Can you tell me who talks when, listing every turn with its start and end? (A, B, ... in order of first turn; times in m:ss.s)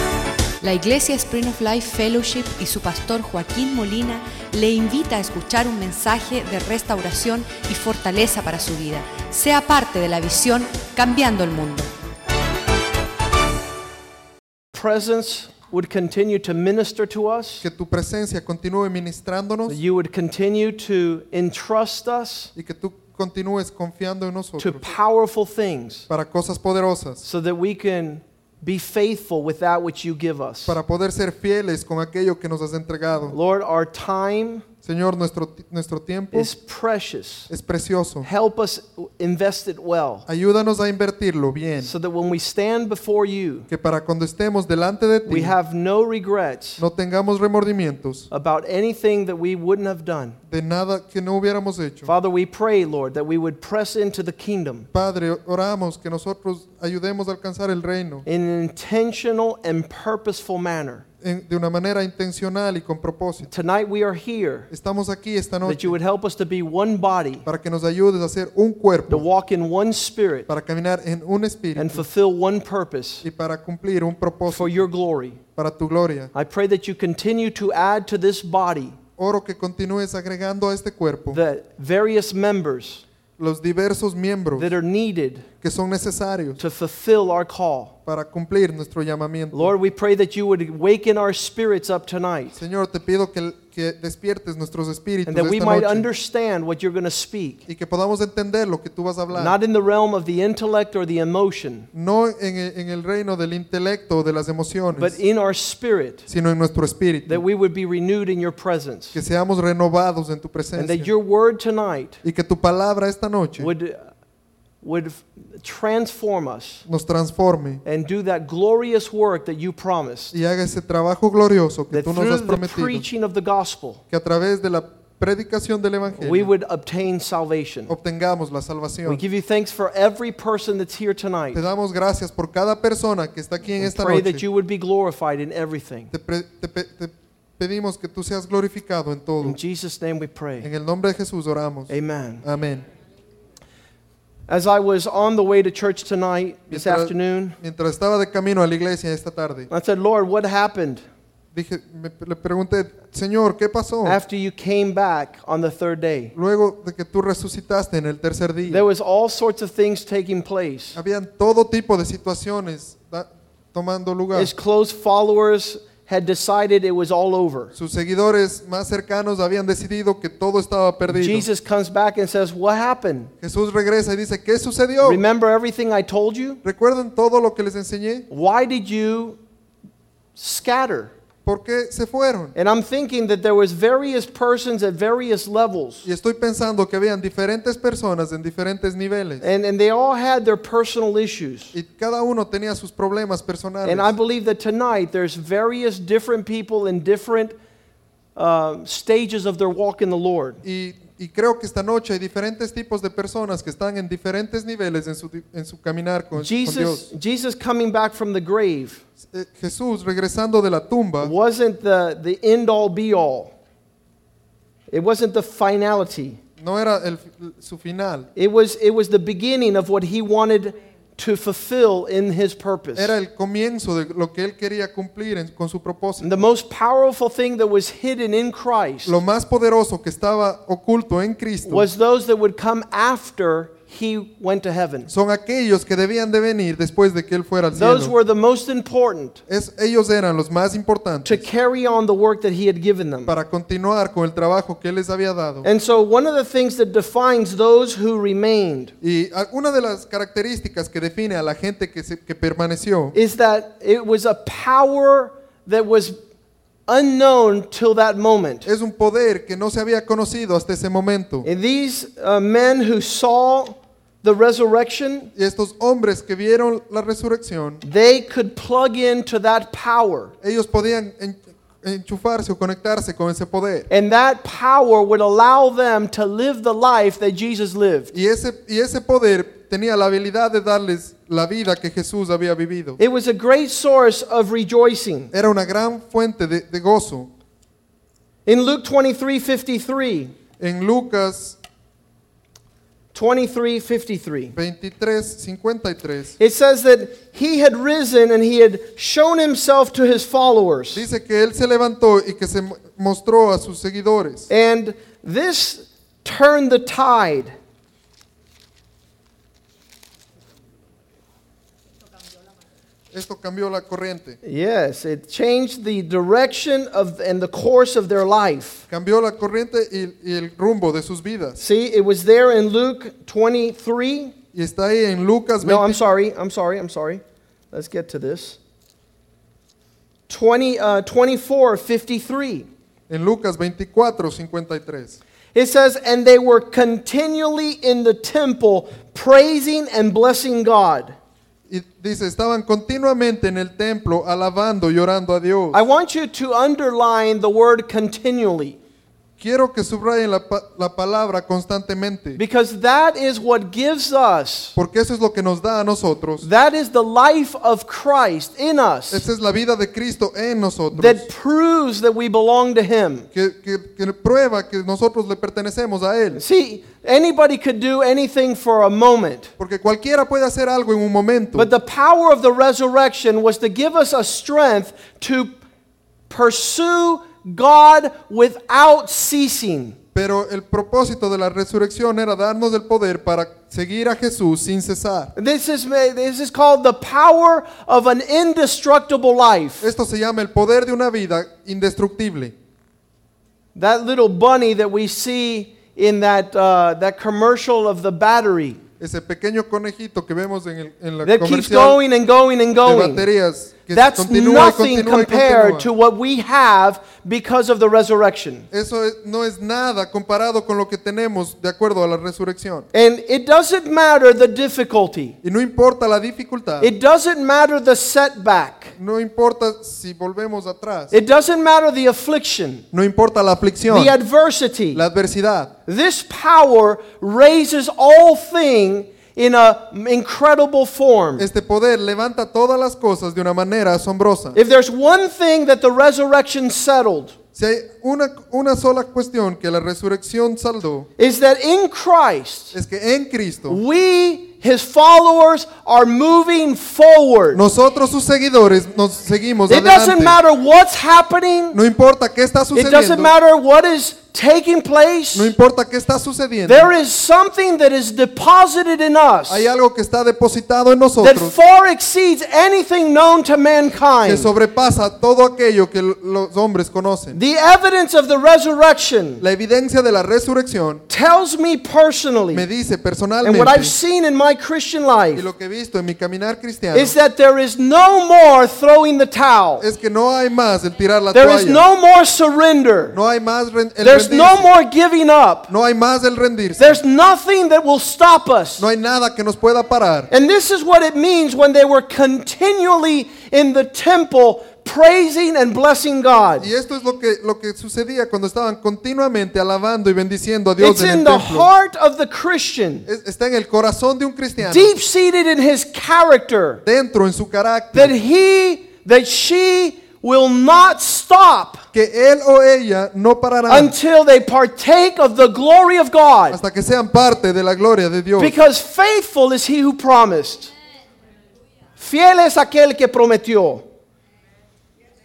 0:00.6-0:11.9 A
0:14.7-0:17.6 B
0:17.6-0:19.8 C
0:19.7-0:22.5 B
0:22.6-0:24.9 C
0:24.6-0:26.0 B
0:26.1-0:27.2 C
0:27.2-0:30.8 B
0:30.7-0:33.4 C
0:33.3-0:34.6 B
0:34.8-0:36.5 C
0:36.3-0:37.5 B
0:37.5-0:38.3 C
0:38.2-0:40.2 B
0:40.3-0:41.9 C
0:41.8-0:43.7 B
0:43.7-0:45.5 C
0:45.3-0:46.8 B
0:46.8-0:48.3 C
0:48.3-0:50.4 B
0:50.5-0:52.1 C
0:52.0-0:54.9 B
0:54.9-0:58.2 C
0:58.2-1:01.0 B
1:01.2-1:03.5 C
1:03.5-1:04.7 B
1:04.7-1:06.0 C
1:05.6-1:07.4 B
1:07.4-1:09.2 C
1:09.1-1:10.5 B
1:10.5-1:12.0 C
1:11.8-1:13.2 B
1:13.2-1:14.9 C
1:14.5-1:15.4 B
1:15.6-1:16.3 C
1:16.3-1:19.0 B
1:19.2-1:21.4 C
1:21.3-1:23.0 B
1:23.4-1:24.7 C
1:24.6-1:25.4 B
1:25.6-1:26.6 C
1:26.6-1:27.9 B
1:28.0-1:29.7 C
1:29.5-1:32.6 B
1:32.5-1:36.1 C
1:35.2-1:37.6 B
1:37.7-1:39.6 C
1:39.3-1:41.9 B
1:41.9-1:45.2 C
1:44.9-1:46.2 B
1:46.3-1:47.4 C
1:47.2-1:49.2 B
1:49.1-1:51.1 C
1:50.8-1:52.2 B
1:52.2-1:53.7 C
1:53.6-1:54.1 B
1:54.8-1:56.8 B
1:56.8-1:57.8 C
1:57.8-2:00.3 B
2:00.3-2:03.0 C
2:01.9-2:04.0 B
2:04.1-2:06.5 C
2:06.2-2:07.9 B
2:07.9-2:09.2 C
2:09.0-2:11.6 B
2:11.5-2:14.4 C
2:13.8-2:16.1 B
2:16.1-2:19.6 C
2:19.4-2:20.7 B
2:20.6-2:21.9 C
2:21.9-2:22.4 B
2:22.4-2:22.8 C
2:24.5-2:27.6 B
2:26.7-2:29.7 C
2:29.7-2:31.0 B
2:31.5-2:34.2 C
2:34.0-2:36.3 B
2:36.3-2:38.8 C
2:38.7-2:41.0 B
2:40.9-2:44.5 C
2:44.3-2:47.7 B
2:47.7-2:51.4 C
2:51.1-2:53.3 B
2:53.4-2:55.2 C
2:55.0-2:56.6 B
2:56.6-2:58.3 C
2:58.3-2:59.4 B
3:00.4-3:01.1 B
3:01.4-3:02.5 C
3:02.5-3:06.0 B
3:06.0-3:09.4 C
3:09.4-3:11.7 B
3:11.7-3:14.1 C
3:13.8-3:17.5 B
3:18.4-3:20.6 B
3:20.6-3:27.1 C
3:26.4-3:29.0 B
3:29.3-3:31.3 C
3:31.2-3:33.5 B
3:34.9-3:36.4 B
3:36.6-3:38.3 C
3:38.4-3:43.1 B
3:43.0-3:46.3 C
3:46.2-3:49.2 B
3:49.0-3:51.9 C
3:51.6-3:55.1 B
3:55.1-3:58.1 C
3:57.7-3:59.4 B
3:59.5-4:01.4 C
4:01.2-4:03.3 B
4:03.3-4:05.7 C
4:05.6-4:08.9 B
4:09.0-4:13.2 C
4:13.1-4:16.2 B
4:16.9-4:18.7 B
4:18.6-4:21.5 C
4:21.4-4:25.3 B
4:25.3-4:27.8 C
4:27.8-4:30.3 B
4:30.4-4:33.9 C
4:33.9-4:38.1 B
4:38.1-4:43.0 C
4:43.0-4:45.3 B
4:45.3-4:47.3 C
4:48.4-4:50.3 B
4:50.6-4:51.6 C
4:53.1-4:54.5 B
4:54.5-4:56.4 C
4:56.4-5:01.0 B
5:00.9-5:04.5 C
5:04.5-5:07.5 B
5:13.1-5:14.4 C
5:14.4-5:18.8 B
5:18.9-5:21.6 C
5:21.6-5:24.3 B
5:24.5-5:26.0 C
5:25.6-5:28.6 B
5:30.3-5:32.7 B
5:33.1-5:35.2 C
5:35.5-5:41.2 B
5:41.7-5:45.8 C
5:45.7-5:48.8 B
5:49.4-5:52.4 C
5:52.4-5:54.8 B
5:54.8-5:56.4 C
5:56.4-5:59.2 B
5:59.1-6:01.2 C
6:00.9-6:03.3 B
6:03.3-6:06.4 C
6:06.3-6:09.5 B
6:09.6-6:11.7 C
6:11.5-6:15.6 B
6:16.3-6:20.0 B
6:20.1-6:25.3 C
6:25.4-6:29.9 B
6:29.8-6:32.5 C
6:33.8-6:38.8 B
6:39.0-6:42.0 C
6:41.2-6:43.2 B
6:42.8-6:45.9 C
6:43.9-6:48.7 B
6:48.7-6:52.9 C
6:52.9-6:55.4 B
6:55.4-6:56.9 C
6:56.8-6:58.9 B
6:59.0-7:01.1 C
7:01.1-7:02.8 B
7:02.9-7:04.2 C
7:03.9-7:05.0 B
7:04.9-7:05.7 C
7:05.8-7:11.5 B
7:11.4-7:14.6 C
7:14.5-7:17.3 B
7:17.5-7:21.1 C
7:21.2-7:22.8 B
7:22.7-7:23.8 C
7:23.7-7:27.6 B
7:27.5-7:30.4 C
7:29.7-7:31.8 B
7:31.7-7:33.3 C
7:32.7-7:35.5 B
7:35.3-7:36.9 C
7:36.7-7:39.6 B
7:39.5-7:41.5 C
7:41.2-7:44.5 B
7:44.2-7:47.4 C
7:47.3-7:49.4 B
7:49.4-7:51.0 C
7:51.1-7:52.6 B
7:52.5-7:53.9 C
7:53.4-7:55.4 B
7:55.3-7:57.1 C
7:56.9-7:59.9 B
7:59.8-8:01.8 C
8:01.3-8:03.2 B
8:03.1-8:04.7 C
8:04.0-8:05.7 B
8:05.7-8:07.0 C
8:06.8-8:08.8 B
8:08.8-8:10.3 C
8:10.3-8:16.7 B
8:16.6-8:21.7 C
8:20.8-8:23.1 B
8:23.1-8:24.9 C
8:24.6-8:26.8 B
8:26.8-8:28.1 C
8:27.9-8:31.8 B
8:31.9-8:33.9 C
8:33.7-8:36.6 B
8:36.5-8:38.6 C
8:38.4-8:40.7 B
8:42.0-8:43.8 B